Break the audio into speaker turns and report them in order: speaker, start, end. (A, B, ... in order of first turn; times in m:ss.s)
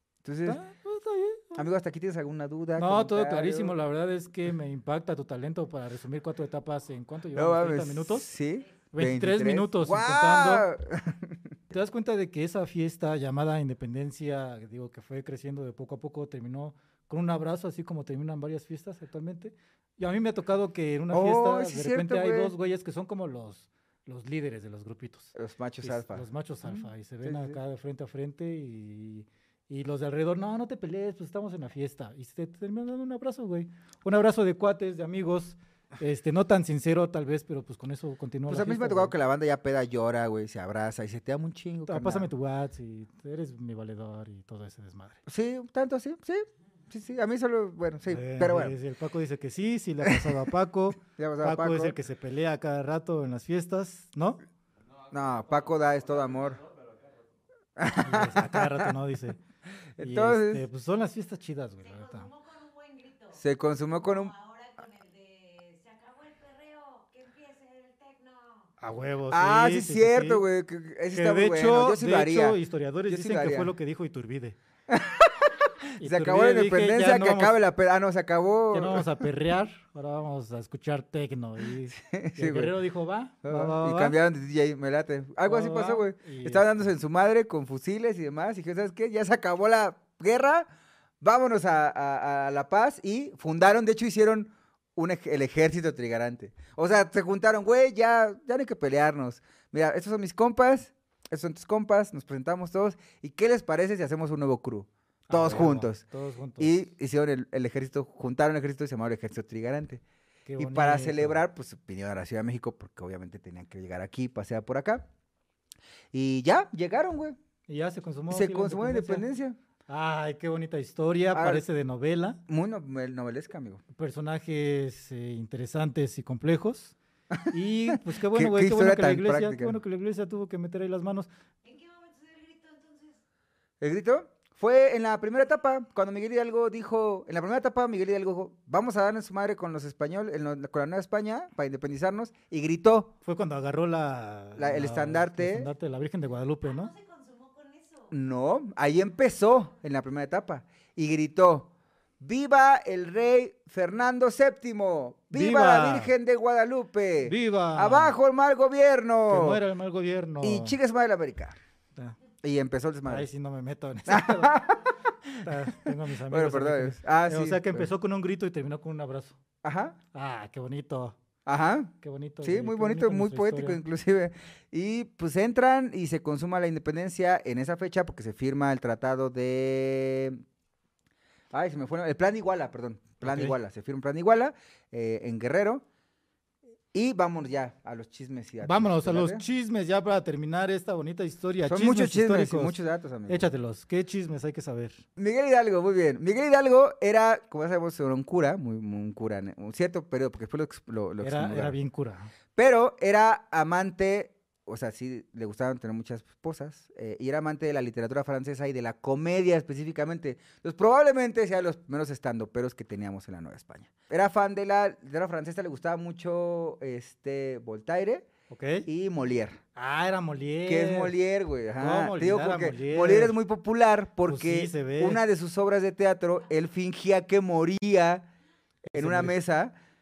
0:00.2-0:00.6 A
0:00.4-0:01.6 B
0:01.6-0:03.8 A
0:02.8-0:08.3 B
0:07.3-0:11.4 A
0:08.9-0:10.6 B
0:11.7-0:39.1 B
0:21.1-0:22.5 A
0:25.3-0:27.6 A
0:38.5-0:42.3 A
0:41.9-0:45.2 B
0:45.3-0:48.8 A
0:48.1-0:54.4 B
0:50.0-0:50.4 A
0:51.1-0:52.0 A
0:55.1-0:56.7 A
0:57.8-0:58.9 A
0:58.0-0:59.4 B
1:00.0-1:00.6 A
1:00.0-1:02.4 B
1:02.5-1:03.2 C
1:03.3-1:04.7 A
1:04.8-1:08.5 C
1:08.8-1:10.4 B
1:09.3-1:13.7 A
1:11.1-1:14.6 B
1:14.9-1:19.1 A
1:16.0-1:17.6 B
1:18.7-1:24.2 B
1:21.9-1:22.8 A
1:23.4-1:30.6 A
1:25.4-1:26.8 B
1:31.2-1:46.0 A
1:45.3-1:46.7 B
1:46.6-1:50.0 A
1:50.4-1:51.4 B
1:50.6-1:55.1 A
1:56.1-1:57.4 A
1:57.7-1:59.2 B
1:58.3-1:59.6 A
1:59.9-2:02.4 B
2:01.3-2:01.6 A
2:02.5-2:03.8 A
2:03.9-2:11.3 B
2:07.3-2:09.8 A
2:11.7-2:13.1 C
2:13.8-2:23.1 A
2:23.2-2:27.0 B
2:24.6-2:25.7 A
2:27.1-2:27.8 C
2:28.1-2:39.6 A
2:35.3-2:36.1 B
2:37.2-2:38.1 B
2:39.3-2:40.8 B
2:40.4-2:41.6 A
2:42.4-2:43.3 A
2:43.0-2:44.6 B
2:44.1-2:47.9 A
2:45.4-2:49.4 B
2:49.6-2:50.0 A
2:50.1-2:51.2 B
2:51.4-3:00.4 A
2:52.0-2:53.8 B
3:01.5-3:05.8 A
3:03.2-3:03.5 B
3:06.9-3:09.4 A
3:08.6-3:15.0 B
3:11.6-3:13.5 A
3:15.2-3:21.8 A
3:21.2-3:22.3 B
3:22.6-3:38.3 A
3:38.5-3:38.9 B
3:38.9-3:39.6 A
3:39.8-3:41.1 B
3:40.6-3:48.3 A
3:41.8-3:43.4 B
3:44.2-3:45.2 B
3:48.8-3:49.4 B
3:48.9-3:49.7 A